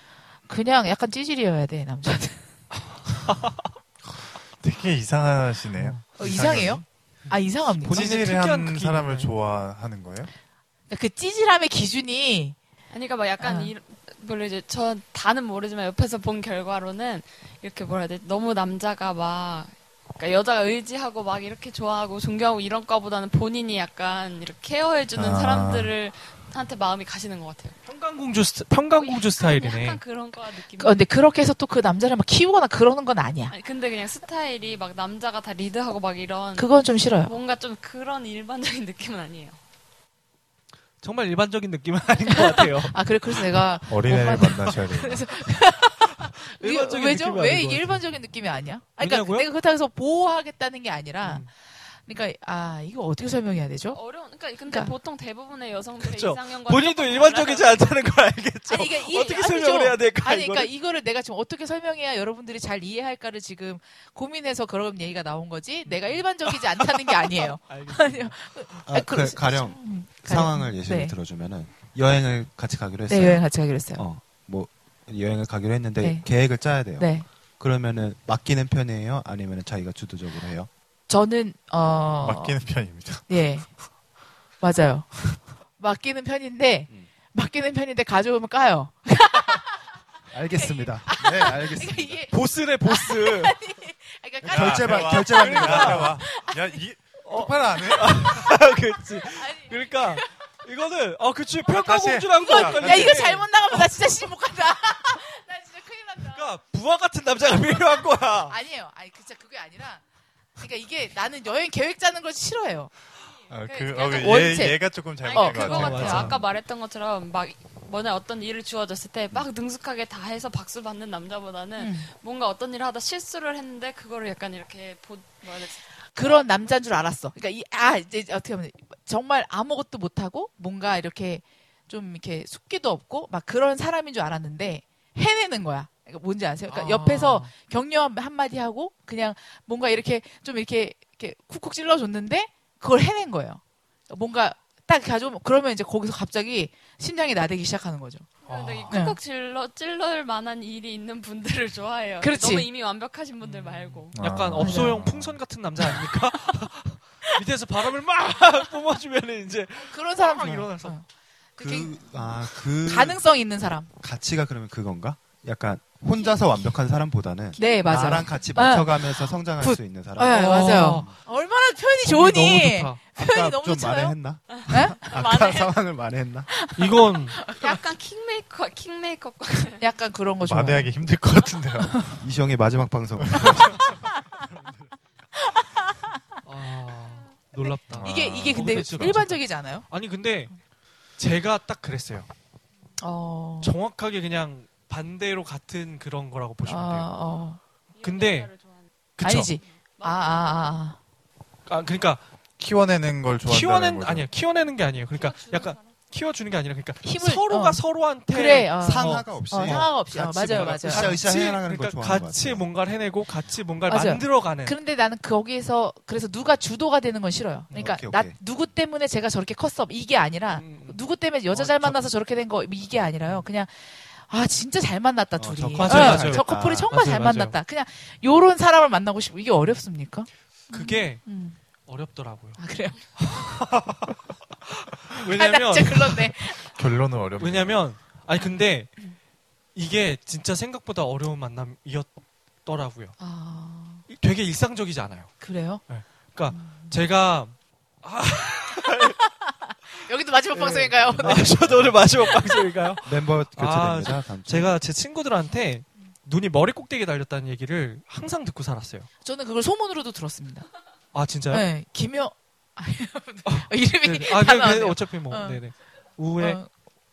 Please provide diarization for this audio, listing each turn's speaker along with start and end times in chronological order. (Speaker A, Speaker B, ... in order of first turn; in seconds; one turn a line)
Speaker A: 0.5-2.4
Speaker B: 3.3-3.6
Speaker C: 4.6-6.8
Speaker B: 5.8-6.8
Speaker A: 6.2-8.1
Speaker B: 7.8-9.3
Speaker C: 7.9-10.3
Speaker A: 10.9-12.6
Speaker D: 12.9-27.8
Speaker A: 13.4-13.7
Speaker C: 25.1-25.9
Speaker B: 27.9-30.0
Speaker D: 29.0-31.0
Speaker A: 30.8-33.5
Speaker D: 33.5-36.7
Speaker A: 36.6-37.3
Speaker D: 37.2-39.6
Speaker B: 41.0-43.6
Speaker A: 42.3-54.0
Speaker C: 43.9-45.3
Speaker B: 46.0-48.0
Speaker B: 49.0-49.5
Speaker B: 51.2-51.5
Speaker D: 53.9-57.9
Speaker A: 54.7-54.9
Speaker B: 56.0-60.7
Speaker A: 58.7-71.2
Speaker B: 65.9-68.4
Speaker E: 68.8-80.7
Speaker A: 73.1-74.0
Speaker A: 76.0-76.3
Speaker A: 77.0-77.3
Speaker A: 81.1-82.6
Speaker C: 82.2-83.2
Speaker A: 83.3-83.7
Speaker A: 84.6-89.8
Speaker E: 90.3-92.2
Speaker A: 90.5-96.8
Speaker B: 92.3-93.6
Speaker E: 94.4-96.2
Speaker C: 94.4-98.2
Speaker B: 95.3-96.1
Speaker B: 97.2-103.9
Speaker A: 98.1-100.3
Speaker C: 101.7-103.4
Speaker A: 102.3-106.5
Speaker B: 106.3-108.6
Speaker A: 108.5-110.0
Speaker A: 110.6-112.9
Speaker C: 113.5-116.4
Speaker A: 113.7-116.3
Speaker D: 114.0-114.3
Speaker D: 115.2-126.5
Speaker B: 115.7-116.4
Speaker A: 121.8-122.1
Speaker A: 126.2-148.3
Speaker B: 136.7-137.5
Speaker D: 148.4-154.2
Speaker B: 148.5-149.0
Speaker A: 148.9-149.2
Speaker A: 152.2-152.7
Speaker B: 153.4-160.9
Speaker C: 154.1-155.4
Speaker A: 154.6-155.1
Speaker A: 159.8-161.1
Speaker A: 161.6-163.9
Speaker E: 161.6-163.2
Speaker E: 164.0-171.2
Speaker D: 167.6-167.9
Speaker A: 167.6-175.0
Speaker B: 170.3-171.1
Speaker B: 172.1-173.0
Speaker E: 173.2-176.5
Speaker D: 174.5-175.8
Speaker A: 176.5-177.8
Speaker B: 176.8-177.4
Speaker D: 177.5-179.8
Speaker A: 179.7-180.9
Speaker C: 180.4-182.2
Speaker A: 181.8-182.2
Speaker E: 182.2-183.7
Speaker C: 183.2-183.8
Speaker A: 183.6-184.1
Speaker A: 185.4-185.7
Speaker B: 186.4-190.5
Speaker C: 187.9-189.2
Speaker A: 188.0-189.9
Speaker B: 191.2-192.3
Speaker A: 193.0-193.7
Speaker B: 193.6-197.1
Speaker A: 196.7-197.6
Speaker D: 197.9-200.6
Speaker B: 198.0-198.5
Speaker B: 199.2-199.6
Speaker A: 199.2-201.0
Speaker B: 201.7-202.2
Speaker C: 202.6-204.3
Speaker B: 203.5-214.8
Speaker D: 205.2-205.9
Speaker A: 207.0-211.1
Speaker E: 208.8-212.7
Speaker A: 213.9-231.6
Speaker E: 217.7-218.4
Speaker B: 220.5-221.0
Speaker B: 221.5-222.0
Speaker E: 225.4-226.9
Speaker B: 225.8-227.6
Speaker B: 230.7-231.2
Speaker B: 231.9-232.6
Speaker A: 232.6-233.2
Speaker B: 233.2-236.4
Speaker A: 235.3-236.8
Speaker C: 236.7-237.8
Speaker B: 237.4-238.9
Speaker B: 239.8-242.1
Speaker B: 242.7-243.2
Speaker A: 243.2-244.1
Speaker B: 244.1-245.4
Speaker A: 245.4-245.8
Speaker B: 245.9-249.2
Speaker A: 246.5-247.0
Speaker A: 248.9-251.6
Speaker B: 250.5-259.1
Speaker E: 251.2-252.3
Speaker E: 253.0-254.8
Speaker A: 259.2-260.7
Speaker B: 261.1-261.7
Speaker A: 261.5-265.6
Speaker B: 263.5-266.6
Speaker A: 266.4-266.7